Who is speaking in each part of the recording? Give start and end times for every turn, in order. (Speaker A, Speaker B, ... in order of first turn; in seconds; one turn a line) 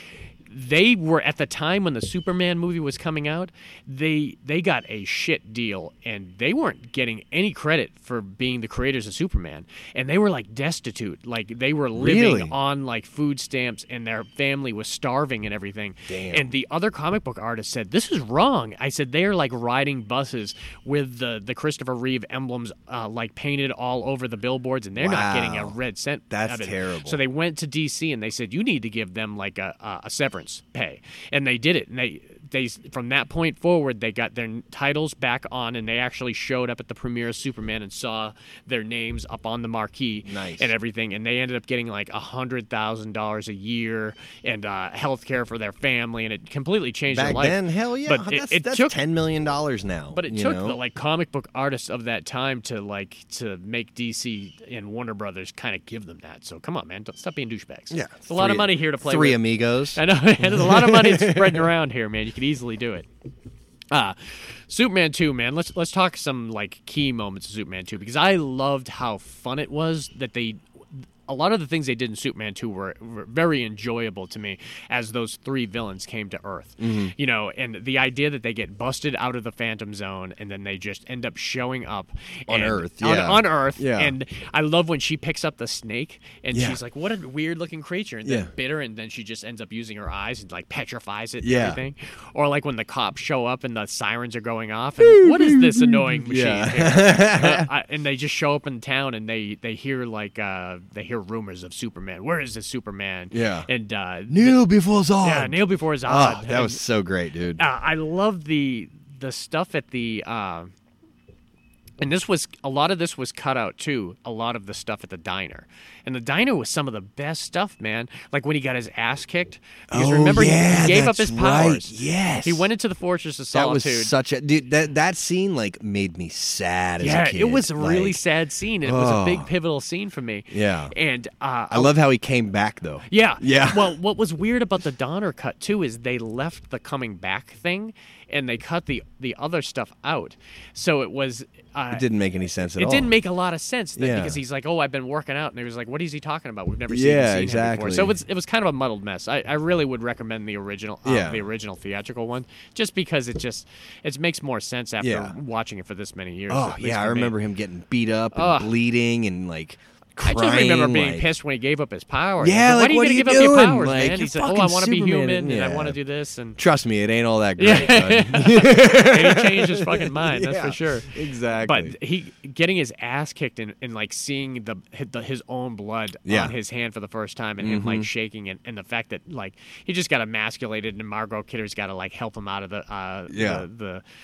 Speaker A: 0.5-49.0
Speaker B: 11.9-12.5
Speaker B: 16.1-16.5
Speaker B: 25.0-25.7
Speaker B: 26.3-27.2
Speaker B: 40.2-40.7
Speaker B: 47.1-50.8
Speaker A: 50.1-63.1
Speaker B: 57.9-61.7
Speaker A: 63.9-70.6
Speaker A: 71.2-104.6
Speaker B: 76.8-77.1
Speaker B: 82.5-84.1
Speaker B: 86.5-86.8
Speaker B: 88.2-88.5
Speaker B: 91.4-91.8
Speaker B: 95.0-97.7
Speaker B: 103.3-103.7
Speaker B: 104.3-107.6
Speaker A: 105.2-106.8
Speaker A: 107.6-110.7
Speaker A: 112.0-124.1
Speaker B: 119.9-122.7
Speaker B: 123.5-128.2
Speaker A: 127.0-131.9
Speaker B: 128.8-129.5
Speaker B: 130.5-130.9
Speaker B: 131.7-133.9
Speaker A: 133.1-142.1
Speaker B: 141.9-143.1
Speaker A: 142.8-157.3
Speaker B: 143.9-144.4
Speaker B: 146.9-148.1
Speaker B: 151.0-151.4
Speaker B: 155.0-155.3
Speaker B: 156.5-161.3
Speaker A: 158.3-158.7
Speaker A: 160.2-166.6
Speaker B: 162.4-166.0
Speaker B: 166.6-171.9
Speaker A: 167.6-184.0
Speaker B: 176.2-176.5
Speaker B: 177.6-178.1
Speaker B: 183.3-183.6